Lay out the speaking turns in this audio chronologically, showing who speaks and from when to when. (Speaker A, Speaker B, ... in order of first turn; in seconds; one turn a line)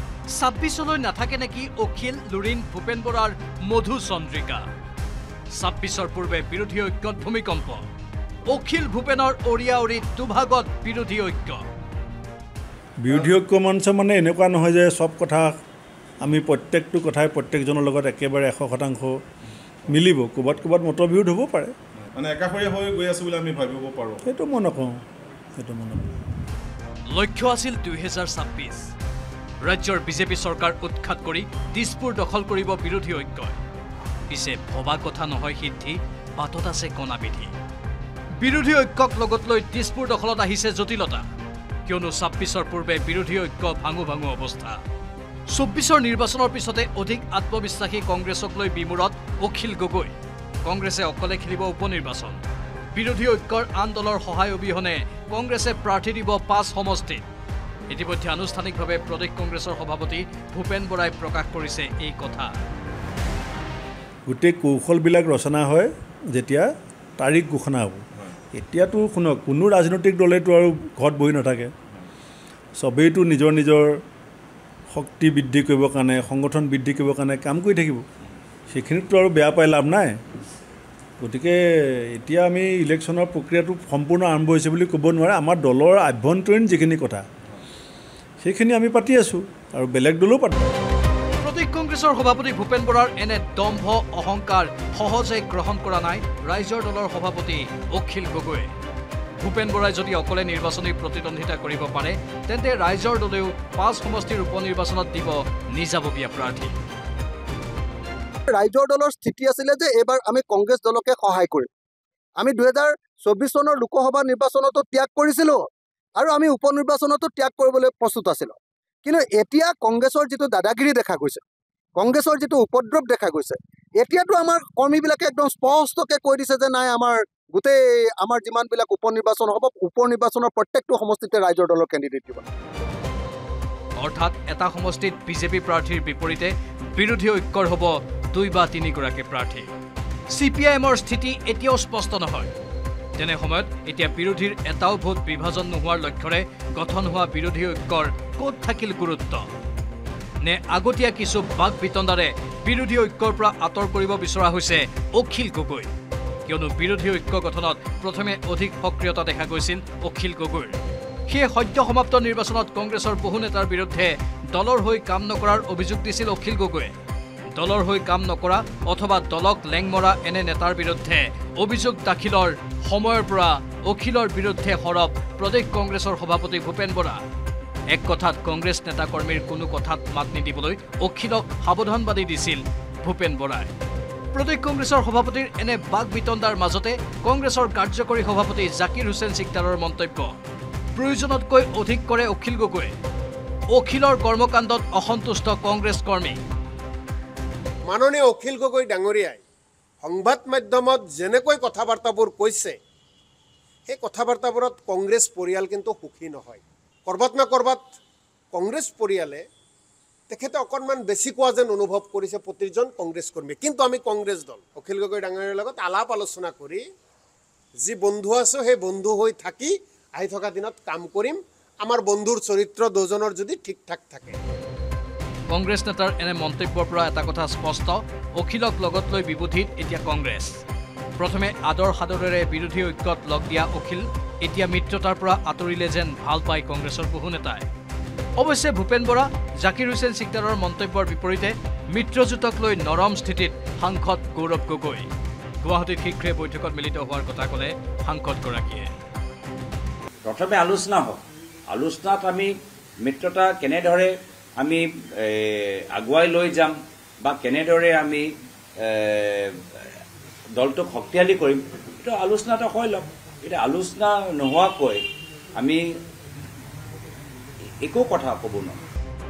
Speaker A: 0.3-4.6
Speaker A: 5.5-7.9
Speaker A: 8.5-11.6
Speaker B: 13.0-15.6
Speaker B: 16.2-19.2
Speaker B: 19.9-21.8
Speaker C: 22.2-24.2
Speaker B: 24.2-25.0
Speaker B: 25.6-26.2
Speaker A: 27.1-28.9
Speaker A: 29.6-33.6
Speaker A: 34.3-37.5
Speaker A: 38.4-41.3
Speaker A: 41.9-44.8
Speaker A: 45.5-50.1
Speaker A: 50.6-52.4
Speaker A: 52.9-57.2
Speaker A: 57.9-62.5
Speaker B: 64.3-71.7
Speaker B: 72.8-74.0
Speaker B: 74.9-78.1
Speaker B: 78.7-80.2
Speaker B: 81.2-87.2
Speaker B: 88.4-90.6
Speaker A: 91.4-98.7
Speaker A: 99.4-106.8
Speaker D: 108.5-111.7
Speaker D: 112.4-115.6
Speaker D: 116.2-121.4
Speaker D: 122.0-132.4
Speaker A: 134.0-139.7
Speaker A: 140.3-142.5
Speaker A: 143.2-149.5
Speaker A: 150.4-155.9
Speaker A: 156.5-160.8
Speaker A: 161.3-166.9
Speaker A: 167.6-177.2
Speaker A: 177.9-183.7
Speaker A: 184.3-190.4
Speaker A: 191.0-192.9
Speaker A: 193.7-196.4
Speaker E: 197.9-199.4
Speaker E: 200.0-202.8
Speaker E: 203.9-208.0
Speaker E: 208.5-209.4
Speaker E: 210.3-216.8
Speaker E: 217.8-224.4
Speaker A: 225.5-230.6
Speaker A: 231.2-237.7
Speaker A: 238.4-245.1
Speaker A: 245.6-248.9
Speaker F: 250.2-258.3
Speaker F: 258.8-259.5
Speaker F: 260.6-265.0
Speaker F: 267.8-268.8